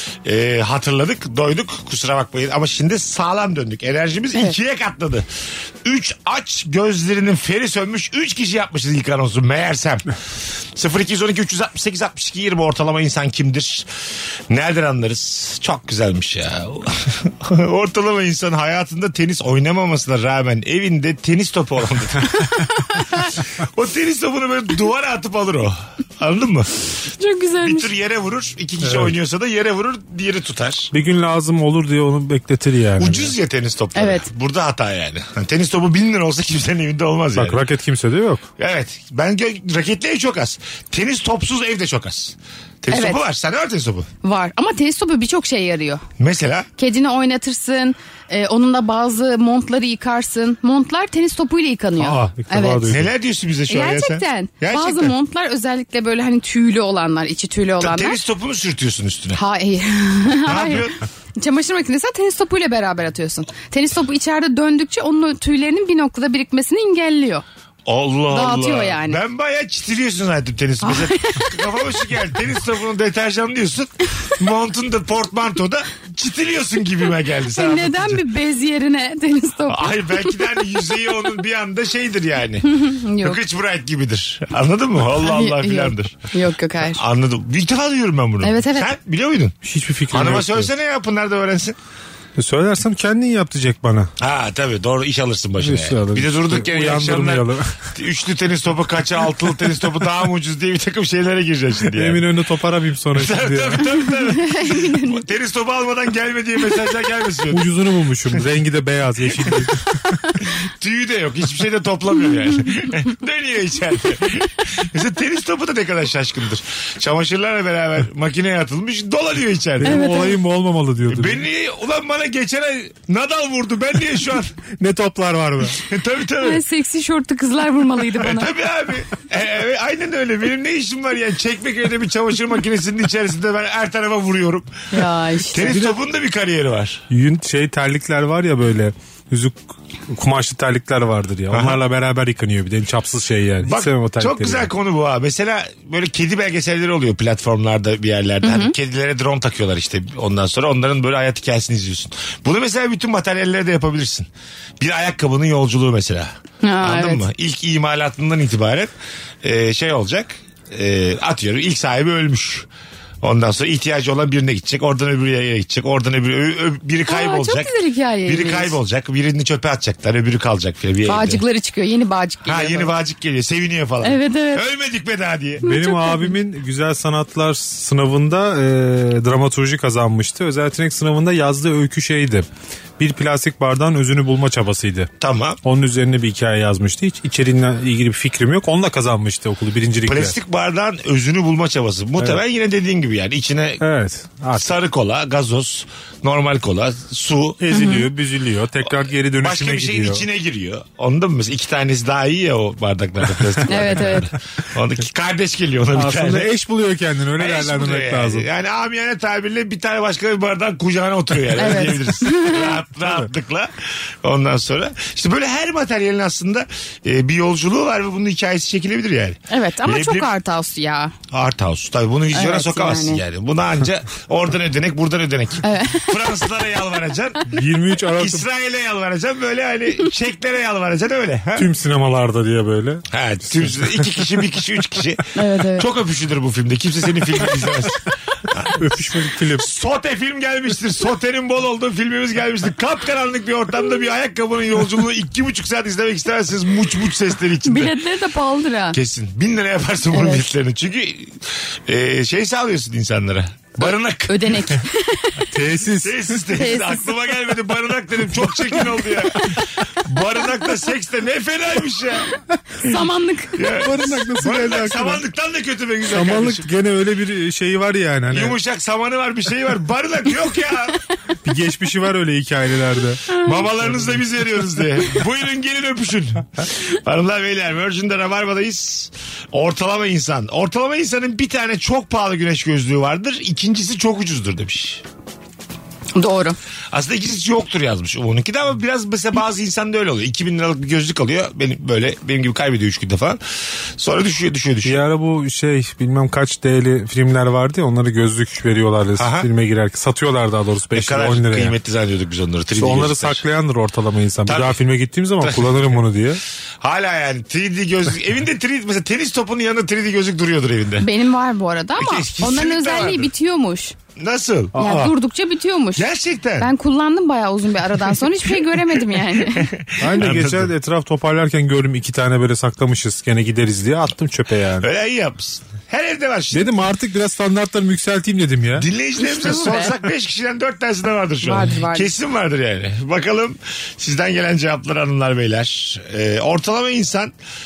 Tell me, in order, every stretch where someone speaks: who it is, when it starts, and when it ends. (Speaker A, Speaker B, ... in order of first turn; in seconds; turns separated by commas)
Speaker A: 0.2-5.3, Speaker A: 5.8-10.1, Speaker A: 10.8-13.8, Speaker A: 14.5-22.5, Speaker A: 23.6-26.9, Speaker B: 27.2-27.9, Speaker A: 27.6-30.9, Speaker C: 28.8-29.1, Speaker C: 30.9-33.4, Speaker A: 33.0-37.6, Speaker B: 33.9-34.3, Speaker C: 37.3-38.5, Speaker A: 38.6-44.1, Speaker B: 42.9-43.2, Speaker B: 44.2-46.0, Speaker A: 46.2-46.7, Speaker B: 46.8-52.9, Speaker C: 52.0-53.1, Speaker A: 52.8-55.1, Speaker B: 53.7-58.2, Speaker A: 57.8-59.4, Speaker B: 59.3-67.4, Speaker A: 60.4-61.0, Speaker A: 67.8-78.2, Speaker B: 68.3-69.2, Speaker B: 70.8-71.6, Speaker B: 77.5-80.3, Speaker A: 79.7-86.2, Speaker B: 82.7-83.4, Speaker B: 85.2-87.0, Speaker A: 86.9-89.5, Speaker B: 88.4-88.9, Speaker C: 89.6-90.7, Speaker A: 90.1-91.8, Speaker C: 92.3-94.1, Speaker A: 94.2-102.2, Speaker C: 95.6-97.8, Speaker C: 101.9-103.9, Speaker A: 103.1-107.6, Speaker B: 104.3-105.2, Speaker C: 107.5-110.1, Speaker A: 110.5-120.0, Speaker C: 119.8-121.5, Speaker B: 119.8-120.4, Speaker A: 121.1-124.5, Speaker C: 124.8-125.8, Speaker A: 125.8-126.6, Speaker B: 126.4-128.5, Speaker A: 128.1-134.7, Speaker B: 134.9-135.8, Speaker A: 135.5-137.0, Speaker C: 135.6-135.9, Speaker C: 137.1-144.7, Speaker A: 141.5-141.8, Speaker A: 143.6-154.3, Speaker B: 148.4-148.7, Speaker A: 154.8-158.9, Speaker B: 156.6-157.2, Speaker A: 159.4-162.7, Speaker A: 163.2-167.7, Speaker B: 167.1-168.8, Speaker A: 168.2-171.4, Speaker B: 171.1-172.9, Speaker A: 172.4-175.7, Speaker B: 174.0-174.6, Speaker B: 175.6-176.3, Speaker C: 175.6-182.5, Speaker C: 183.0-185.1, Speaker A: 185.2-185.6, Speaker C: 185.6-190.3, Speaker A: 190.1-193.8, Speaker C: 193.8-194.7, Speaker A: 194.5-197.8, Speaker C: 197.6-200.2, Speaker B: 197.7-198.1, Speaker A: 199.4-206.5, Speaker B: 203.7-204.3, Speaker C: 205.9-208.5, Speaker A: 207.4-220.3, Speaker B: 211.6-212.8, Speaker B: 219.5-221.1, Speaker A: 221.3-227.5, Speaker B: 222.3-223.2, Speaker B: 225.6-226.1, Speaker C: 227.5-228.4, Speaker A: 228.2-231.7, Speaker C: 231.6-233.9, Speaker A: 233.1-238.9, Speaker B: 235.3-235.8, Speaker C: 238.7-239.7, Speaker A: 239.6-247.9, Speaker B: 247.6-249.0, Speaker A: 248.9-254.8, Speaker B: 250.1-250.4, Speaker B: 254.3-255.5, Speaker C: 255.5-256.4, Speaker A: 256.0-262.3, Speaker B: 256.5-257.1, Speaker B: 262.8-263.6, Speaker A: 263.6-266.7, Speaker C: 263.7-265.2, Speaker C: 266.1-268.6, Speaker A: 268.3-271.0, Speaker C: 271.4-273.2, Speaker A: 273.4-285.0, Speaker C: 273.8-274.2, Speaker B: 286.1-286.6, Speaker A: 286.9-293.4, Speaker A: 294.0-295.0, Speaker C: 294.8-301.7, Speaker A: 299.2-299.5, Speaker A: 300.9-303.4, Speaker C: 302.8-306.4, Speaker A: 304.4-304.8, Speaker A: 305.4-306.0, Speaker A: 306.8-311.1, Speaker B: 311.0-313.9, Speaker A: 312.0-313.3, Speaker A: 314.2-314.7, Speaker C: 314.7-315.1, Speaker B: 314.8-316.1, Speaker A: 315.9-316.7, Speaker B: 316.6-319.7, Speaker A: 319.4-320.7, Speaker C: 320.0-324.9, Speaker A: 324.8-326.7, Speaker C: 326.5-328.9, Speaker A: 328.8-337.3, Speaker B: 329.2-329.9, Speaker B: 331.4-332.1